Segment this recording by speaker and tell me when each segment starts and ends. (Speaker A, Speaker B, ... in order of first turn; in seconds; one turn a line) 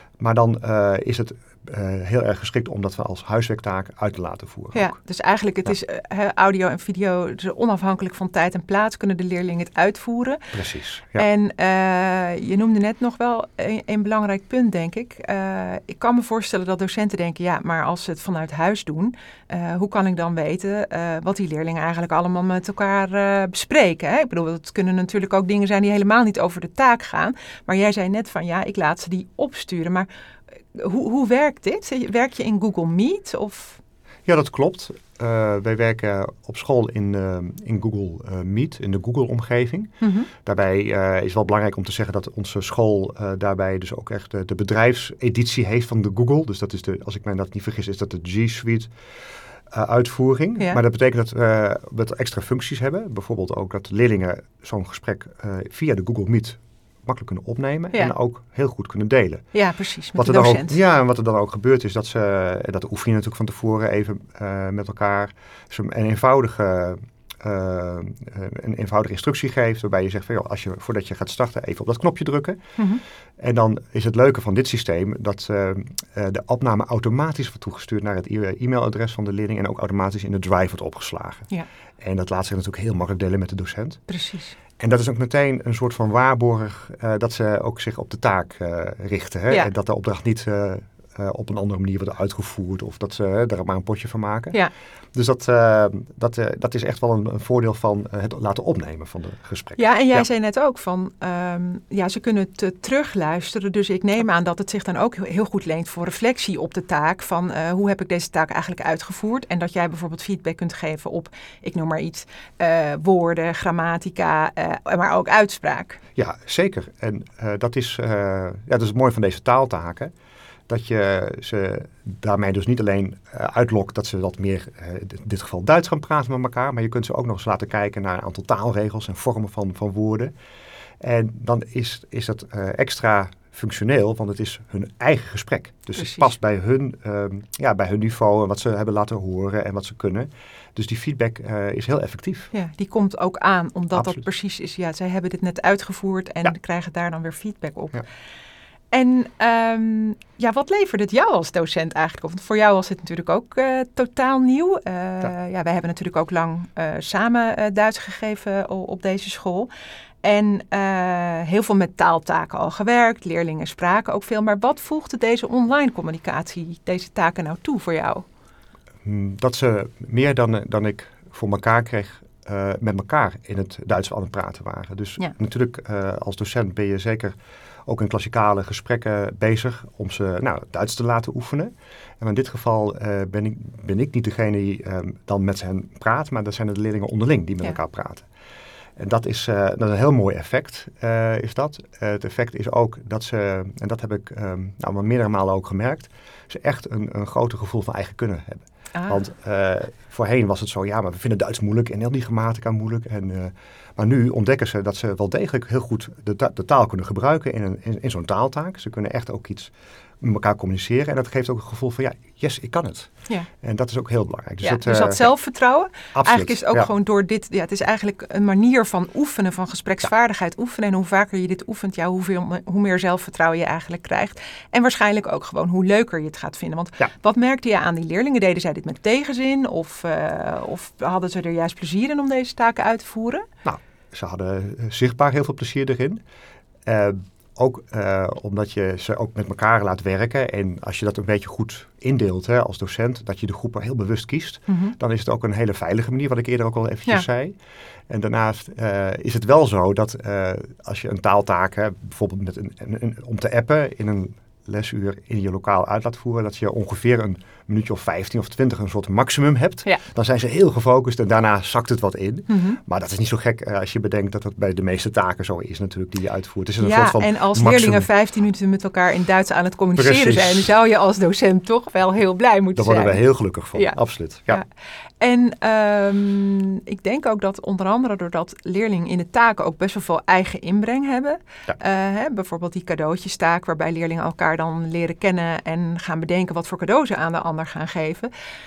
Speaker A: 0.2-4.9
Speaker B: 4.7-10.5
Speaker A: 10.5-11.3
Speaker B: 11.1-30.1
Speaker B: 30.7-33.8
Speaker A: 34.2-39.9
Speaker B: 40.0-40.3
Speaker A: 40.4-48.9
Speaker A: 49.7-59.5
Speaker B: 59.5-60.8
Speaker A: 60.2-72.6
Speaker A: 73.4-81.5
Speaker A: 82.0-84.0
Speaker B: 84.1-84.5
Speaker A: 84.8-94.6
Speaker A: 95.1-100.2
Speaker B: 99.8-116.0
Speaker A: 116.2-120.1
Speaker A: 120.7-130.3
Speaker A: 131.0-142.5
Speaker B: 136.0-136.3
Speaker B: 142.5-148.0
Speaker B: 148.9-159.7
Speaker B: 160.2-168.2
Speaker A: 169.0-177.3
Speaker A: 177.8-188.3
Speaker A: 189.0-215.3
Speaker B: 198.9-199.2
Speaker B: 214.6-233.4
Speaker A: 216.1-216.9
Speaker A: 233.6-236.2
Speaker A: 236.8-247.6
Speaker B: 244.7-244.9
Speaker A: 248.1-268.1
Speaker B: 262.5-262.8
Speaker B: 266.8-273.2
Speaker A: 269.9-270.7
Speaker A: 272.7-274.6
Speaker B: 275.2-288.3